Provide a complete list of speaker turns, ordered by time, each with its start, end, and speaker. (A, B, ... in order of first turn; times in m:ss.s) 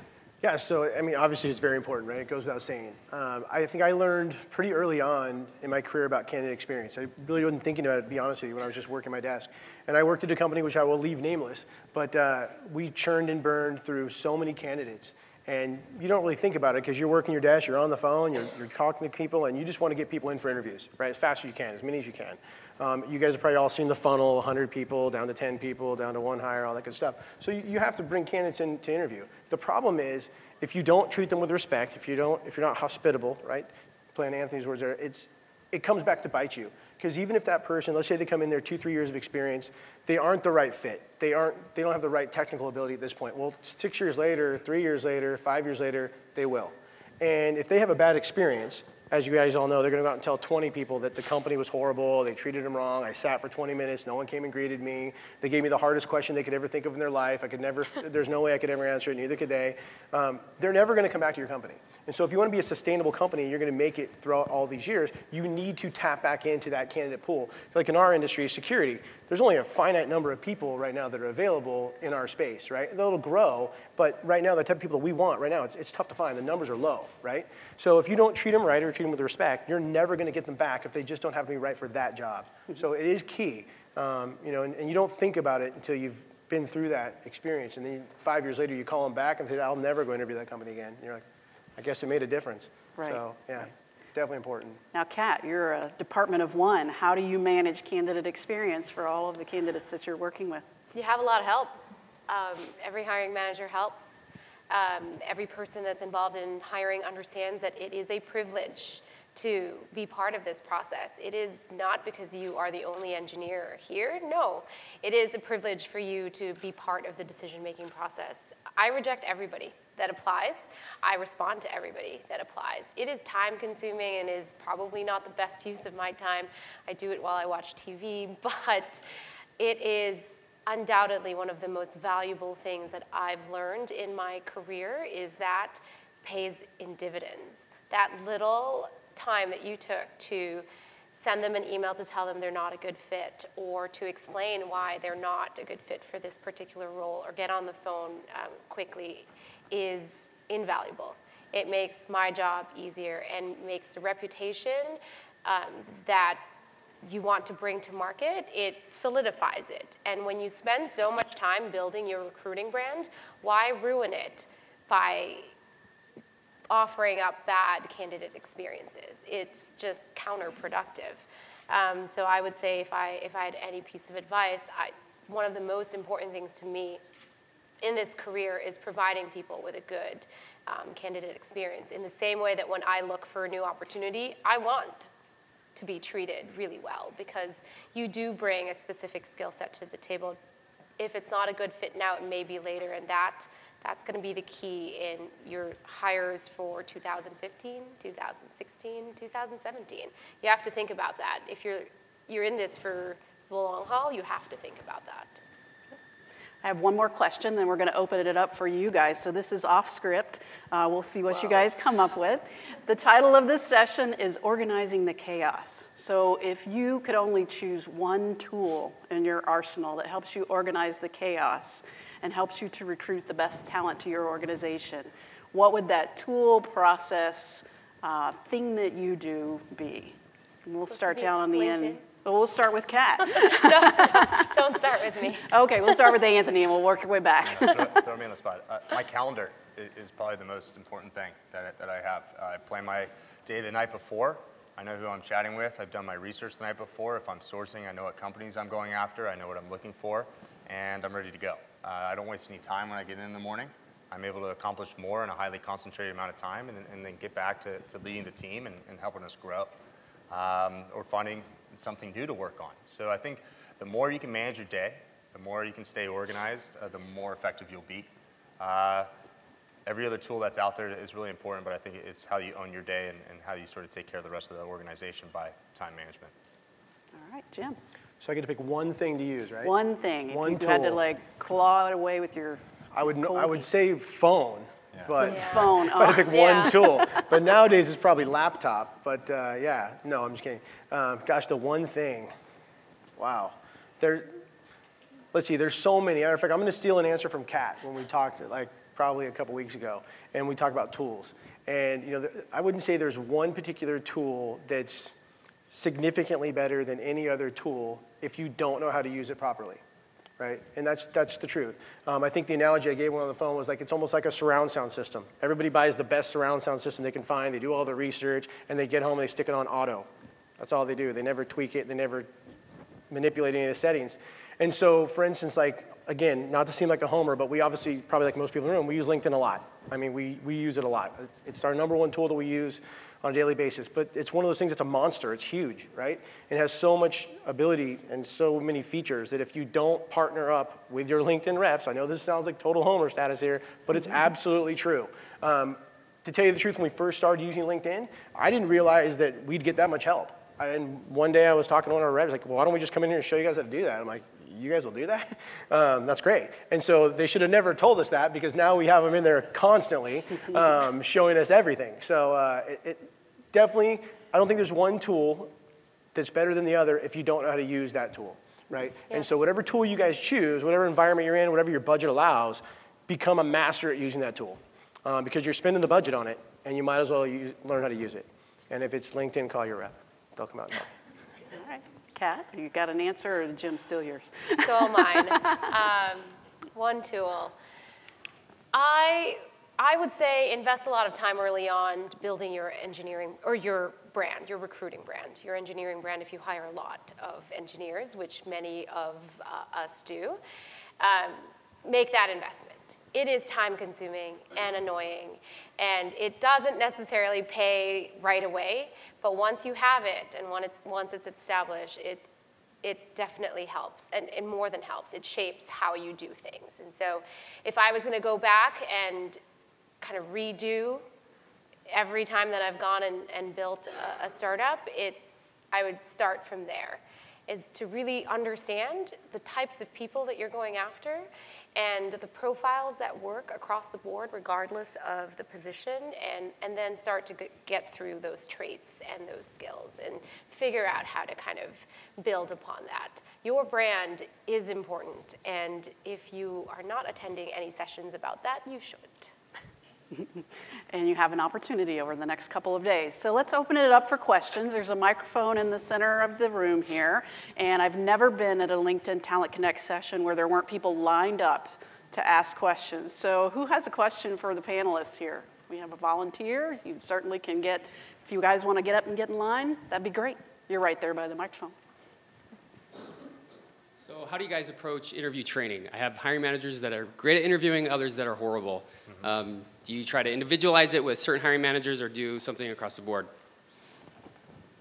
0:00.4-1:31.2 A
1:31.8-1:34.8 A
1:33.0-1:33.2 B
1:34.9-1:40.6 B
1:40.9-1:44.0 C
1:44.7-2:09.0 C
2:09.6-2:36.4 C
2:37.0-2:45.5 C
2:46.7-2:57.0 C
2:57.8-3:05.1 C
3:05.8-3:10.4 C
3:11.0-3:25.4 C
3:26.6-3:54.5 B
3:50.8-3:52.0 C
3:53.2-3:55.5 C
3:55.5-3:58.0 B
3:57.4-4:19.7 D
4:20.3-4:29.1 D
4:29.8-4:36.3 D
4:37.1-4:37.8 B
4:38.2-4:39.7 A
4:39.6-4:42.6 B
4:40.3-4:41.0 A
4:42.9-4:52.3 A
4:43.2-4:43.6 B
4:45.2-4:47.2 B
4:45.2-4:46.8 C
4:53.2-4:54.4 A
4:55.3-5:05.1 A
5:05.7-5:09.8 A
5:10.4-5:22.3 A
5:23.1-6:05.5 A
6:06.1-6:20.9 A
6:21.5-6:25.6 B
6:24.5-6:27.5 C
6:28.7-6:40.4 C
6:41.0-6:52.2 C
6:52.8-6:59.4 C
7:00.0-7:01.0 C
7:01.9-7:29.3 C
7:30.1-7:51.7 B
7:54.0-8:03.3 E